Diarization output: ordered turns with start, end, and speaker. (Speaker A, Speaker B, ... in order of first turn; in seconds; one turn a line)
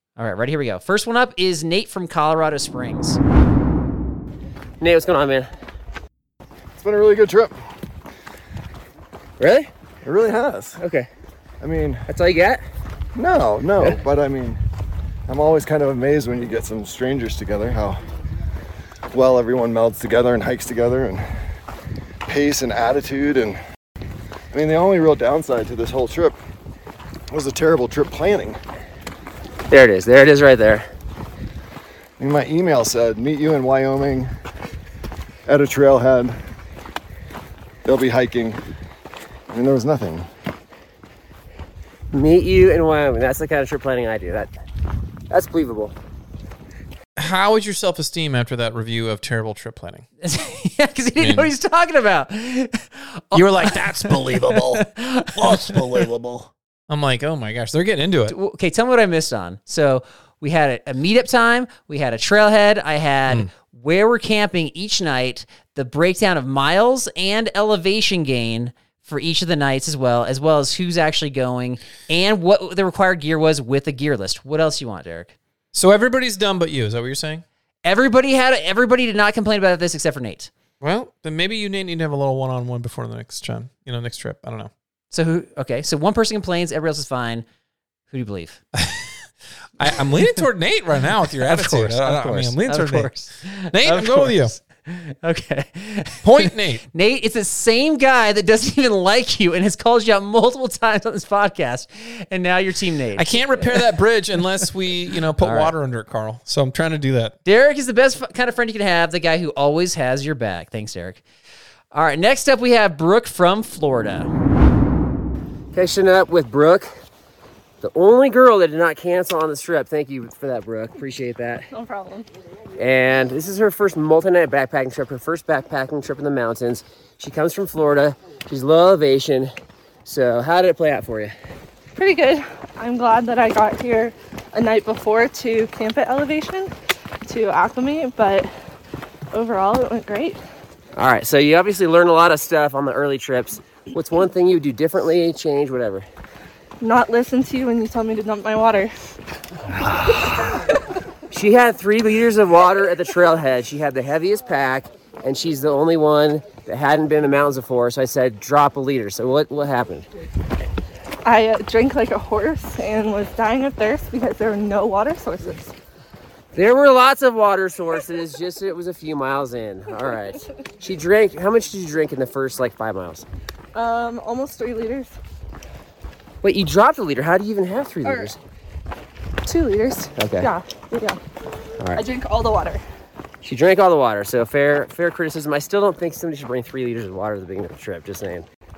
Speaker A: 0.2-3.2
Speaker B: 4.8-5.5
Speaker C: 6.8-7.5
Speaker B: 9.4-9.7
Speaker C: 10.0-10.8
Speaker B: 10.8-11.1
Speaker C: 11.6-12.1
Speaker B: 12.1-12.6
Speaker C: 13.2-14.6
Speaker C: 15.3-18.0
Speaker C: 19.1-21.2
Speaker C: 22.3-23.6
Speaker C: 24.5-26.4
Speaker C: 27.3-28.6
Speaker B: 29.7-30.8
Speaker C: 32.2-34.3
Speaker C: 35.5-36.3
Speaker C: 37.9-38.6
Speaker C: 39.5-40.2
Speaker B: 42.1-44.5
Speaker B: 45.3-45.9
Speaker D: 47.1-50.0
Speaker A: 50.2-56.1
Speaker D: 51.2-51.5
Speaker D: 53.3-54.8
Speaker D: 55.4-56.1
Speaker D: 56.9-58.3
Speaker A: 58.3-75.3
Speaker D: 75.7-77.4
Speaker A: 77.8-80.5
Speaker D: 80.8-84.7
Speaker A: 85.1-87.4
Speaker A: 88.1-88.6
Speaker D: 88.7-89.1
Speaker D: 89.8-93.1
Speaker A: 91.4-103.9
Speaker D: 93.7-94.5
Speaker D: 96.2-96.8
Speaker D: 103.2-107.3
Speaker A: 105.4-105.7
Speaker A: 107.4-111.2
Speaker A: 111.9-114.3
Speaker B: 115.7-116.9
Speaker B: 117.8-121.7
Speaker E: 121.7-122.2
Speaker B: 122.8-129.5
Speaker B: 130.1-131.3
Speaker E: 131.9-136.7
Speaker E: 137.2-138.5
Speaker E: 139.3-140.4
Speaker B: 140.9-146.1
Speaker E: 146.8-148.9
Speaker B: 151.3-160.1
Speaker E: 161.2-165.7
Speaker B: 166.5-173.2
Speaker E: 173.7-175.1
Speaker B: 176.4-178.4
Speaker E: 178.0-178.3
Speaker E: 179.4-181.2
Speaker B: 180.2-180.5
Speaker E: 181.9-182.8
Speaker B: 183.4-188.4